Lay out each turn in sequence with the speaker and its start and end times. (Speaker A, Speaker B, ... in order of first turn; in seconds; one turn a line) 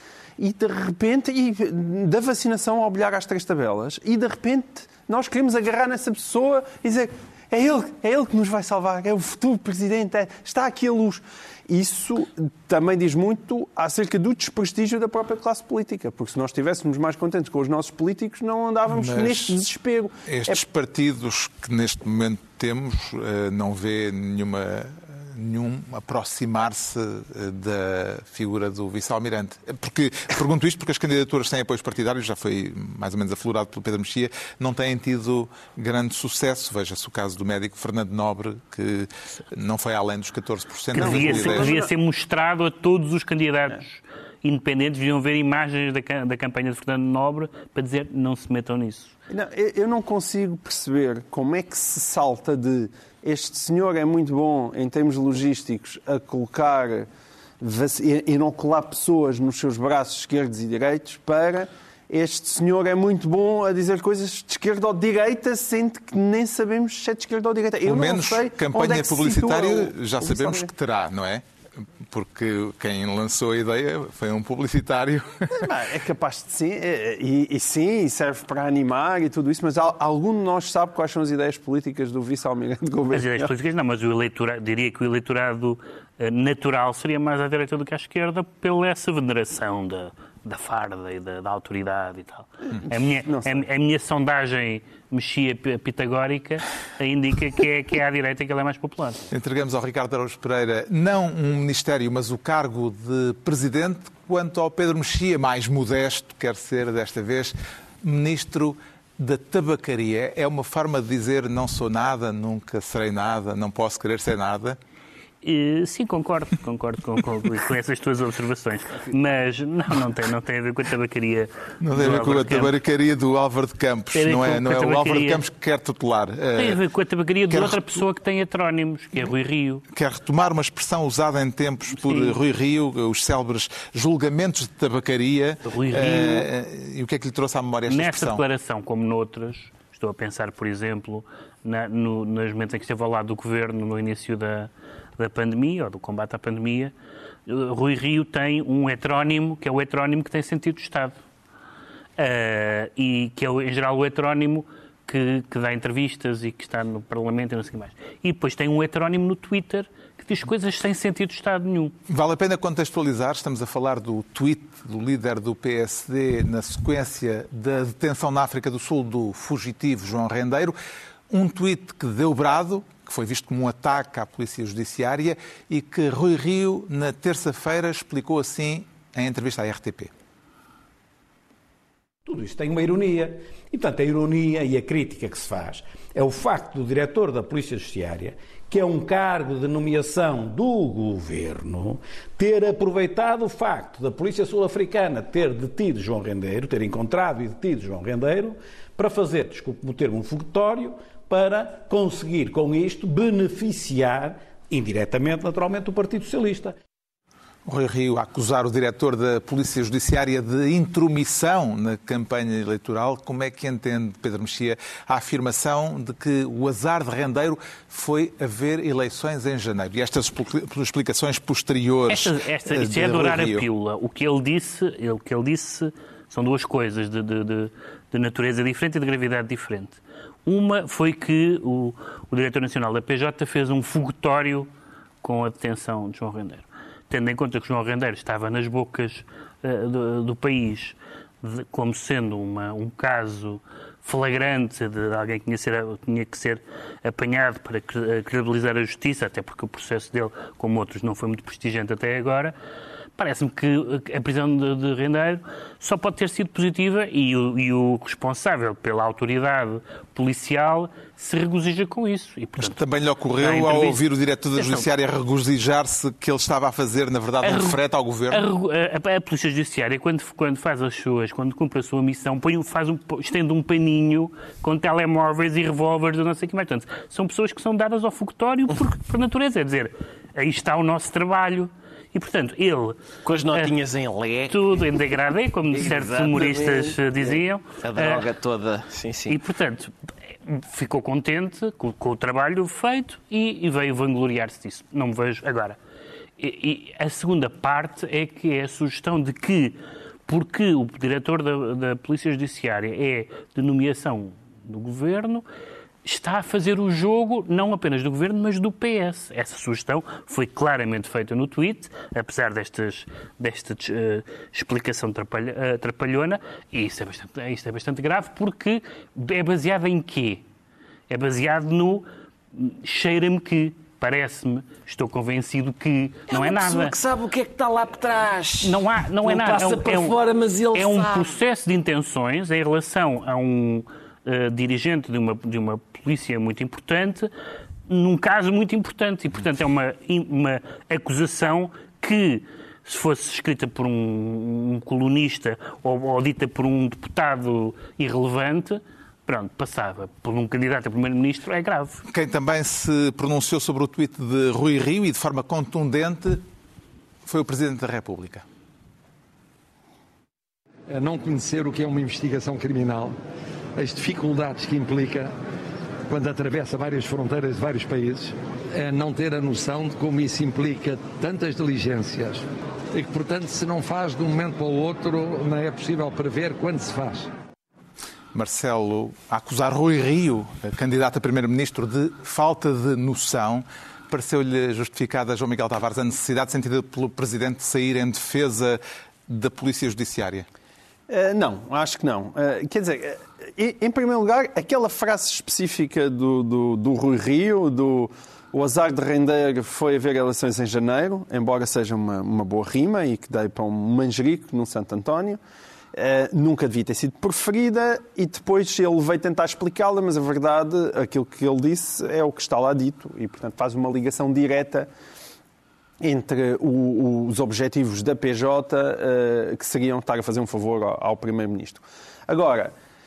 Speaker A: 0.4-20.6
Speaker B: 18.9-19.6
Speaker B: 20.3-41.7
Speaker C: 40.9-49.1
Speaker A: 41.0-41.9
Speaker A: 49.3-57.1
Speaker A: 57.6-70.7
Speaker B: 67.8-75.7
Speaker A: 75.5-83.5
Speaker C: 83.1-99.2
Speaker A: 93.2-93.6
Speaker B: 99.3-114.8
Speaker C: 115.4-122.7
Speaker B: 121.8-126.8
Speaker C: 124.2-125.4
Speaker C: 126.5-129.8
Speaker B: 127.5-128.0
Speaker B: 129.9-138.4
Speaker C: 132.0-132.4
Speaker C: 135.7-136.5
Speaker C: 137.9-146.9
Speaker C: 147.5-151.2
Speaker C: 152.2-161.9
Speaker B: 162.1-170.8
Speaker B: 171.3-180.1
Speaker D: 182.2-206.8
Speaker B: 207.7-223.7
Speaker C: 222.1-234.7
Speaker C: 235.2-252.6
Speaker C: 253.2-262.8
Speaker B: 262.6-268.5
Speaker C: 263.4-264.0
Speaker C: 264.6-264.9
Speaker C: 267.4-267.8
Speaker C: 268.3-283.0
Speaker E: 283.2-284.6
Speaker C: 284.5-288.2
Speaker E: 285.7-289.4
Speaker C: 289.3-289.9
Speaker C: 290.5-295.8
Speaker C: 296.4-299.8
Speaker C: 300.3-305.4
Speaker C: 306.0-320.4
Speaker C: 321.1-326.9
Speaker E: 326.3-331.4
Speaker C: 328.6-330.2
Speaker C: 330.7-337.3
Speaker C: 337.9-352.0
Speaker B: 352.1-356.4
Speaker B: 357.2-358.4
Speaker F: 360.9-363.1
Speaker F: 363.8-365.3
Speaker F: 366.1-377.3
Speaker B: 378.3-390.5
Speaker A: 391.1-405.4
Speaker A: 405.9-414.9
Speaker A: 416.0-422.7